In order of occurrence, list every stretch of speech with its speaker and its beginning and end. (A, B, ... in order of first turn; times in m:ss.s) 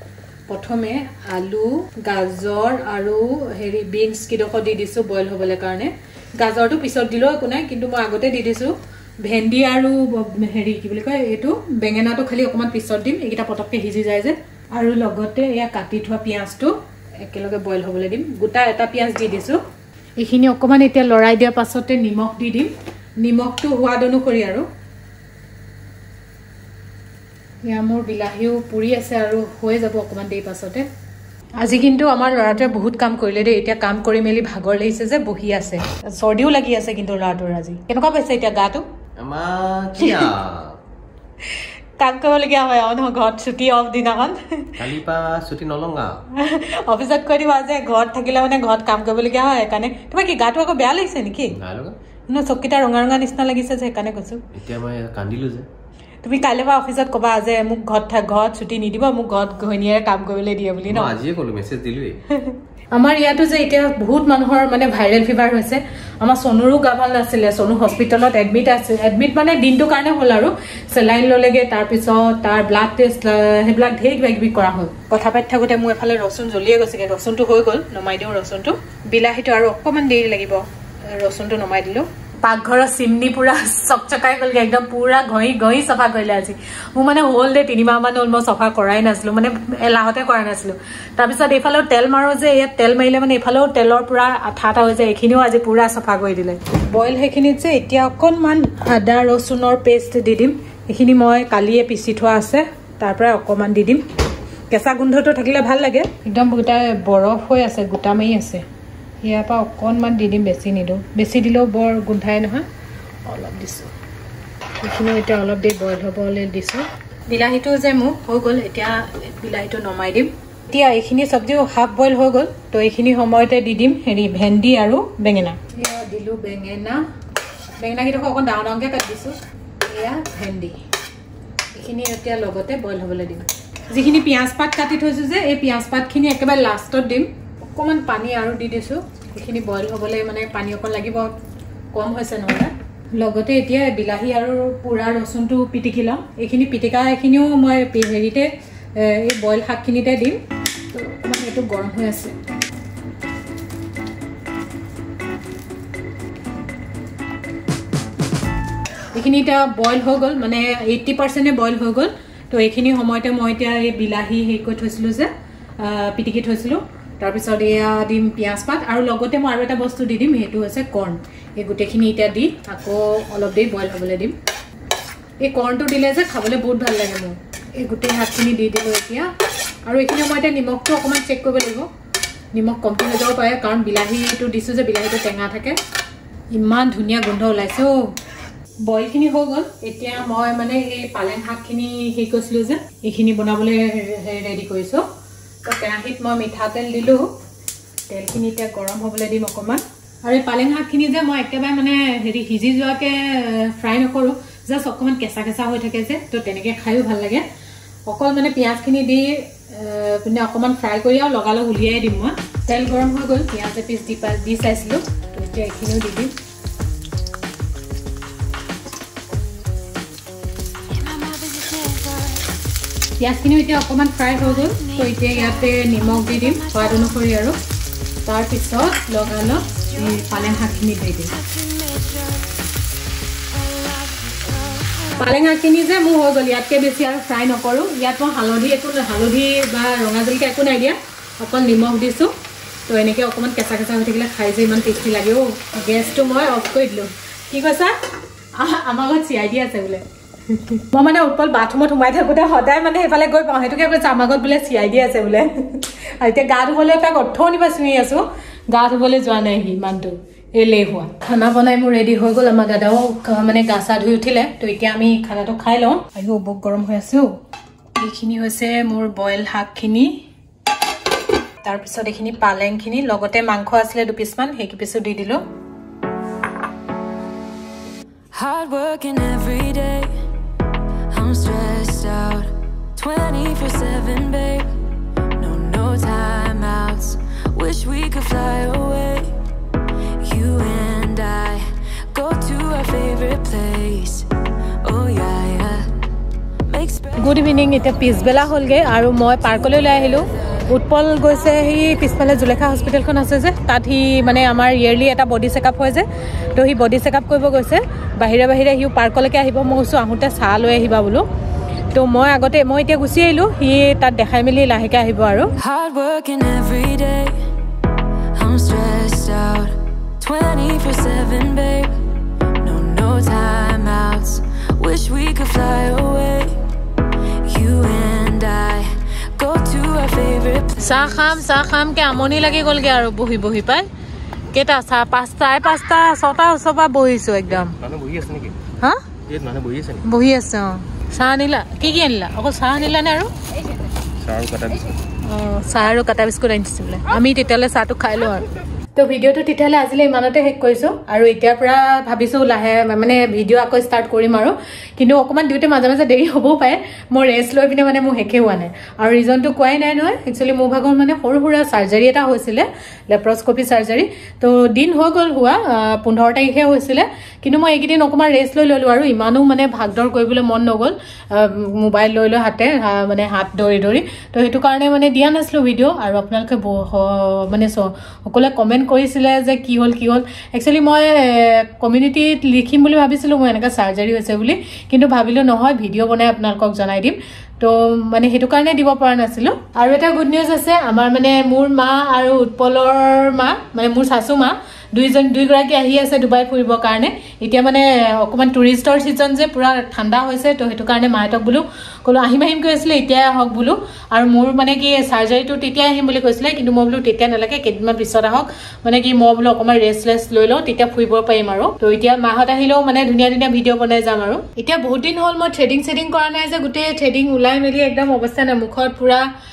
0:00.5-0:19.6 A
0:20.2-0:24.7 A
0:27.6-0:30.9 A
0:31.6-0:38.8 A
0:39.2-0:40.8 B
0:40.0-0:40.3 A
0:42.0-0:44.7 A
0:44.8-0:46.2 B
0:46.3-0:51.6 A
0:51.5-0:52.0 B
0:52.3-0:54.4 A
0:54.5-0:55.7 B
0:56.2-1:01.2 A
1:00.9-1:02.2 B
1:02.3-1:44.0 A
1:44.7-1:48.6 A
1:49.2-1:52.7 A
1:53.2-1:53.9 A
1:54.8-2:07.0 A
2:07.8-2:10.8 A
2:11.7-2:21.4 A
2:21.9-2:30.4 A
2:30.9-2:32.4 A
2:39.1-2:54.4 A
2:55.4-2:59.3 A
2:59.9-3:01.9 A
3:02.5-3:05.8 A
3:06.5-3:08.1 A
3:08.8-3:15.0 A
3:15.6-3:17.3 A
3:18.1-3:27.4 A
3:28.1-3:36.3 A
3:40.9-3:42.5 C
3:43.2-3:47.6 A
3:44.4-3:47.3 C
3:48.2-3:51.3 A
3:49.7-3:52.5 C
3:53.5-3:55.4 C
3:55.2-4:02.3 A
4:02.9-4:07.9 A
4:08.6-4:27.3 A
4:28.0-4:30.2 A
4:31.6-4:35.4 A
4:38.3-4:40.1 C
4:41.1-4:44.7 C
4:45.4-4:49.3 C
4:50.2-4:54.3 C
4:54.8-4:55.9 C
4:56.7-4:58.4 C
4:57.2-5:11.3 A
5:11.9-5:15.5 A
5:15.6-5:17.4 C
5:18.3-5:21.9 C
5:22.6-5:26.6 C
5:27.4-5:31.4 C
5:30.8-5:33.9 A
5:34.5-5:37.8 A
5:37.5-5:38.6 B
5:39.3-5:40.1 B
5:40.0-5:43.3 A
5:44.2-5:44.8 B
5:45.2-6:59.3 A